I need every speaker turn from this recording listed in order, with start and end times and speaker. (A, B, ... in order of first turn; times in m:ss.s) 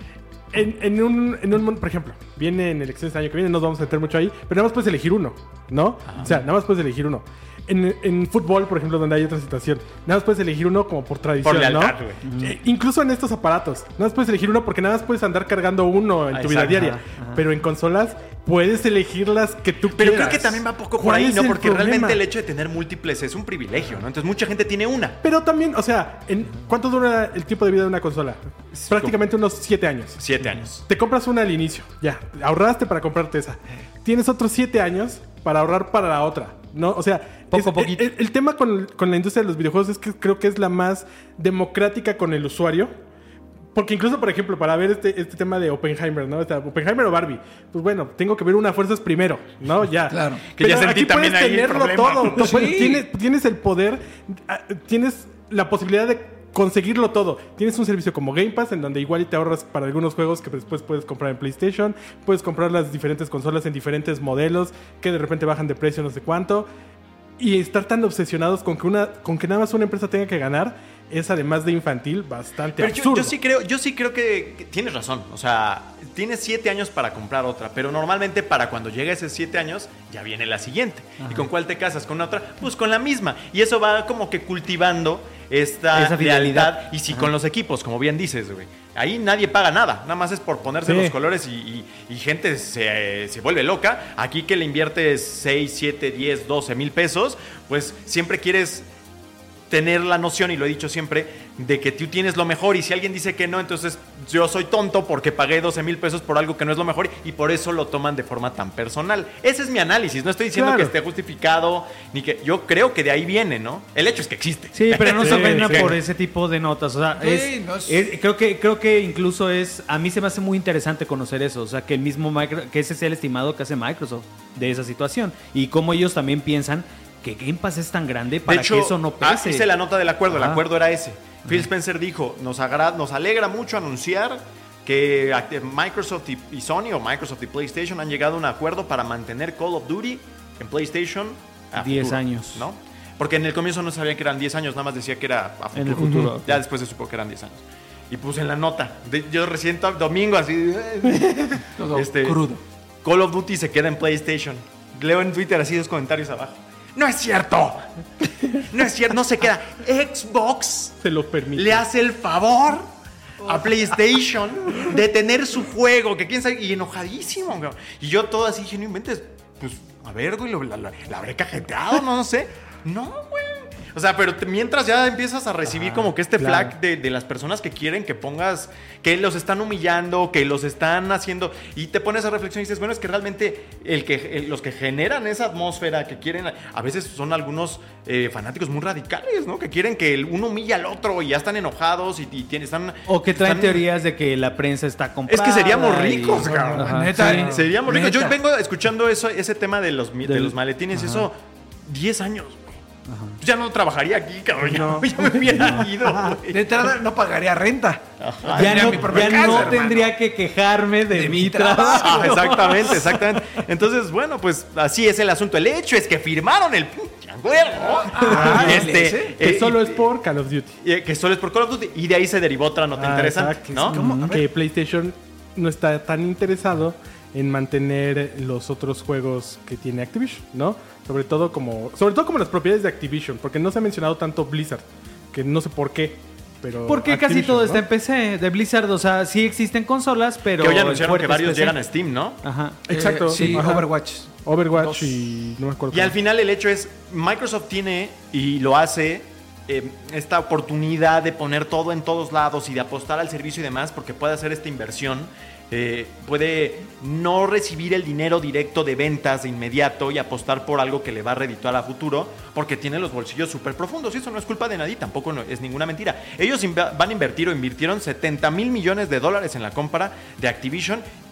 0:00.5-0:22.2 A
0:06.1-0:06.4 B
0:11.4-0:12.3 B
0:12.2-0:12.5 C
0:16.3-0:17.0 B
0:16.8-0:17.4 C
0:20.0-0:25.2 B
0:25.2-0:30.2 A
0:28.7-0:29.2 B
0:30.2-0:30.8 B
0:30.9-0:42.9 A
0:37.5-0:38.1 C
0:43.7-1:06.7 A
0:50.1-0:50.4 D
0:50.6-0:52.7 B
0:52.4-0:53.0 D
1:07.4-1:13.4 A
1:12.8-1:38.8 B
1:21.2-1:21.5 C
1:25.9-1:27.3 C
1:30.8-1:31.2 A
1:39.7-1:56.0 B
1:50.6-1:50.9 A
1:54.7-2:09.7 C
1:55.2-1:56.0 A
1:57.2-1:58.1 D
2:08.5-2:32.5 B
2:10.3-2:10.6 C
2:21.8-2:22.6 C
2:25.8-2:26.6 C
2:26.0-2:26.4 A
2:31.8-2:32.6 D
2:33.0-2:41.0 B
2:41.0-2:41.8 A
2:41.6-2:42.9 B
2:43.4-3:13.8 B
2:56.4-2:56.7 A
3:13.1-3:17.5 C
3:15.3-3:21.4 B
3:16.4-3:18.4 D
3:20.2-3:21.3 C
3:21.9-3:22.8 B
3:23.1-3:23.4 C
3:23.4-3:26.9 B
3:24.6-3:26.4 A
3:26.5-3:29.9 D
3:28.2-3:30.1 B
3:28.6-3:32.9 C
3:31.1-3:33.0 D
3:32.0-3:40.0 B
3:37.7-3:39.4 D
3:38.2-3:40.8 A
3:40.8-3:44.0 B
3:43.0-3:57.8 A
3:43.7-3:44.5 D
3:56.9-4:01.8 C
4:00.6-4:02.4 B
4:02.4-4:03.6 C
4:02.9-4:06.2 A
4:02.9-4:05.0 D
4:05.9-4:31.0 B